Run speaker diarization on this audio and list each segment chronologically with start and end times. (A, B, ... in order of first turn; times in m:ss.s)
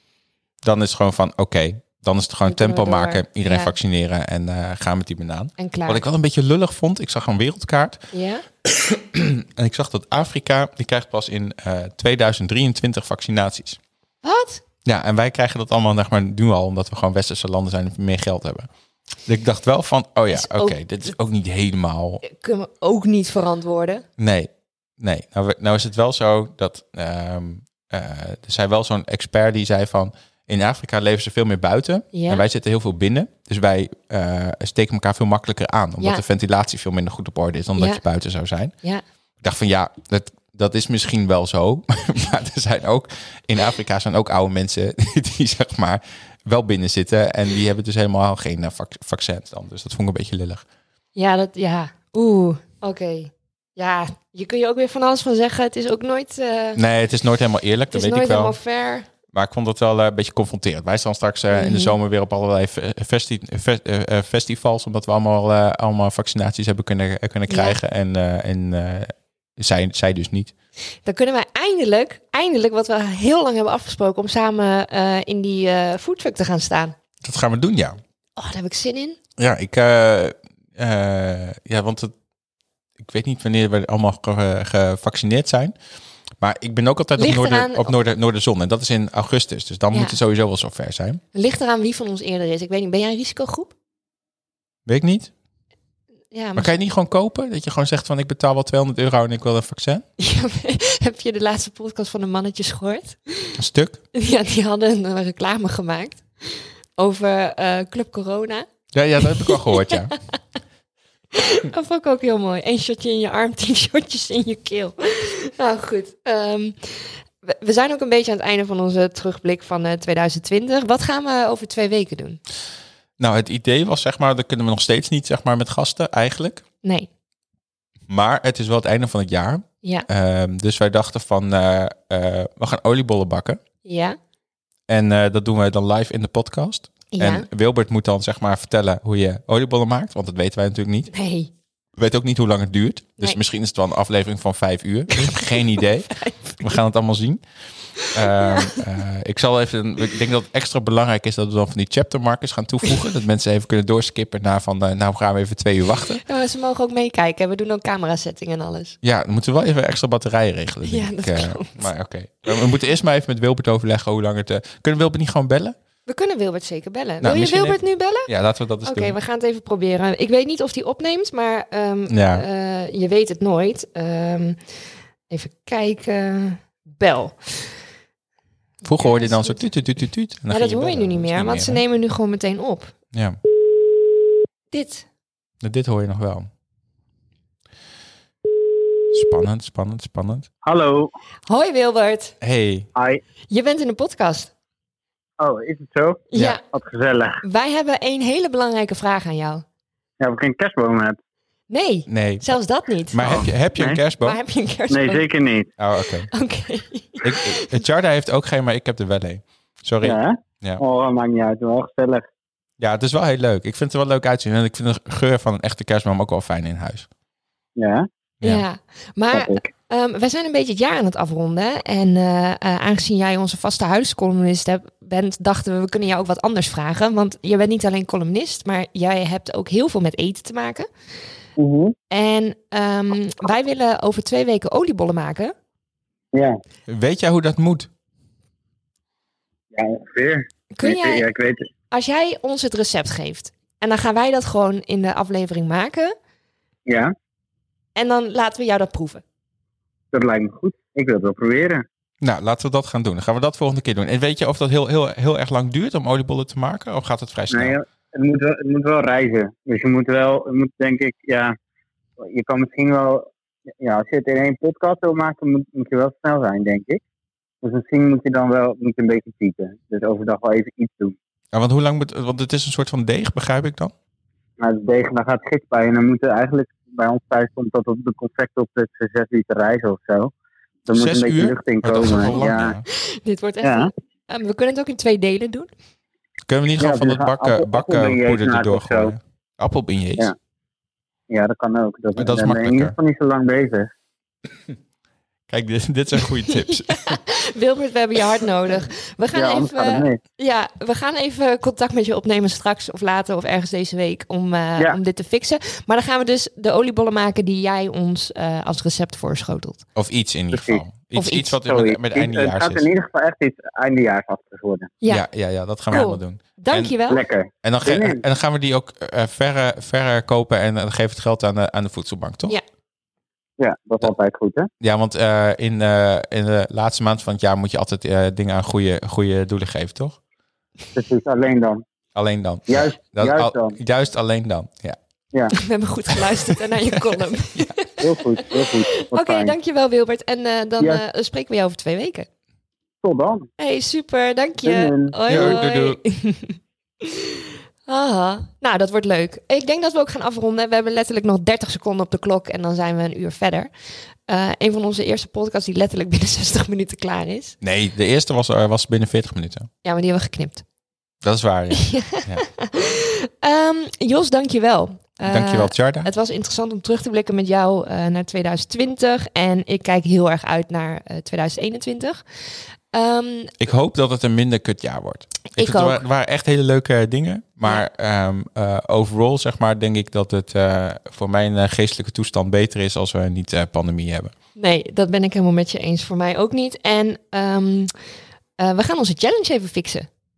0:00.6-0:08.0 A
0:02.5-0:03.7 B
0:05.6-0:06.0 B
0:08.1-0:08.4 B
0:08.6-0:13.8 A
0:14.2-0:14.6 B
0:14.8-0:18.7 A
0:19.3-0:22.2 A
0:20.3-0:20.8 B
0:22.2-0:24.0 B
0:24.2-0:38.8 A
0:32.1-0:32.4 B
0:37.8-0:38.0 B
0:39.4-0:50.6 A
0:51.2-0:56.8 B
0:56.8-0:58.6 A
0:57.9-0:59.1 B
0:59.3-1:10.5 A
1:01.5-1:02.0 B
1:07.5-1:07.8 B
1:11.0-1:17.0 B
1:17.2-1:18.0 A
1:18.4-1:19.2 B
1:19.4-1:22.1 A
1:23.0-1:25.8 A
1:26.4-1:31.2 A
1:27.2-1:27.9 B
1:29.9-1:30.2 B
1:31.3-1:33.7 B
1:34.9-1:35.3 A
1:36.3-1:36.7 B
1:36.6-1:40.0 A
1:40.2-1:43.6 B
1:43.6-1:44.0 A
1:44.2-1:48.6 B
1:48.9-1:50.1 A
1:49.2-1:50.2 B
1:51.3-2:02.4 B
2:03.2-2:06.6 A
2:06.8-2:07.1 B
2:08.1-2:13.6 A
2:13.8-2:14.2 B
2:14.9-2:21.1 A
2:17.1-2:17.5 B
2:21.1-2:21.5 B
2:22.0-2:27.4 A
2:25.1-2:26.7 B
2:28.0-2:36.2 A
2:28.0-2:28.8 B
2:36.3-2:39.0 B
2:39.0-2:45.8 A
2:40.8-2:41.9 B
2:46.1-2:48.3 B
2:47.2-2:49.2 A
2:48.8-2:54.7 B
2:52.1-2:52.4 A
2:55.3-2:57.8 B
2:58.8-3:01.8 A
2:58.8-2:59.6 B
3:00.5-3:03.0 B
3:03.1-3:03.4 A
3:04.7-3:05.0 B
3:05.6-3:06.5 A
3:09.1-3:10.5 A
3:10.6-3:11.1 C
3:11.5-3:12.4 B
3:12.4-3:12.9 A
3:13.0-3:13.2 C
3:13.5-3:14.5 B
3:15.4-3:17.4 C
3:16.3-3:16.6 B
3:17.4-3:19.6 B
3:20.2-3:21.2 C
3:21.7-3:23.5 B
3:22.1-3:22.6 A
3:23.1-3:24.4 A
3:23.2-3:24.0 C
3:24.2-3:25.2 B
3:24.9-3:25.7 C
3:25.8-3:26.3 A
3:26.3-3:27.8 B
3:27.2-3:30.8 A
3:30.0-3:32.3 C
3:32.8-3:37.1 A
3:37.8-3:38.1 C
3:38.4-3:50.9 B
3:39.3-3:39.7 C
3:51.6-3:52.0 C
3:52.1-3:55.5 B
3:56.9-3:57.9 A
3:59.7-4:01.6 C
4:00.7-4:01.3 B
4:01.9-4:06.2 B
4:06.9-4:07.1 C
4:08.0-4:09.2 B
4:10.1-4:11.8 C
4:12.2-4:17.8 A
4:17.5-4:21.6 C
4:22.2-4:23.3 C
4:23.8-4:27.0 C
4:27.6-4:31.2 C
4:31.5-4:33.9 A
4:34.6-4:40.3 C
4:40.9-4:42.8 C
4:40.9-4:42.8 A
4:42.9-4:45.7 B
4:43.6-4:43.9 C
4:46.5-4:50.3 A
4:46.8-4:49.1 C
4:51.3-4:53.9 C
4:52.2-4:53.0 A
4:55.5-4:57.2 A
4:56.5-5:09.8 B
4:59.3-5:00.2 C
5:10.0-5:12.9 A
5:10.5-5:10.8 C
5:11.1-5:11.5 B
5:11.6-5:14.9 C
5:15.1-5:17.0 A
5:15.9-5:17.2 B
5:17.1-5:18.2 C
5:17.6-5:22.6 A
5:23.6-5:24.7 C
5:24.8-5:30.2 A
5:31.0-5:31.8 C
5:32.2-5:35.0 A
5:32.7-5:33.8 C
5:35.5-5:42.3 B
5:36.4-5:37.7 A
5:38.0-5:39.5 C
5:43.0-5:43.5 C
5:43.6-5:47.3 B
5:44.6-5:45.6 C
5:45.3-5:46.0 A
5:47.9-5:53.7 B
5:54.3-5:57.6 B
5:57.6-5:59.7 A
5:59.8-6:00.6 B
6:01.2-6:02.5 A
6:01.7-6:12.2 B
6:05.3-6:06.1 A
6:12.9-6:13.5 B
6:13.6-6:24.3 A
6:15.5-6:16.0 B
6:24.6-6:27.9 B
6:28.6-6:30.1 B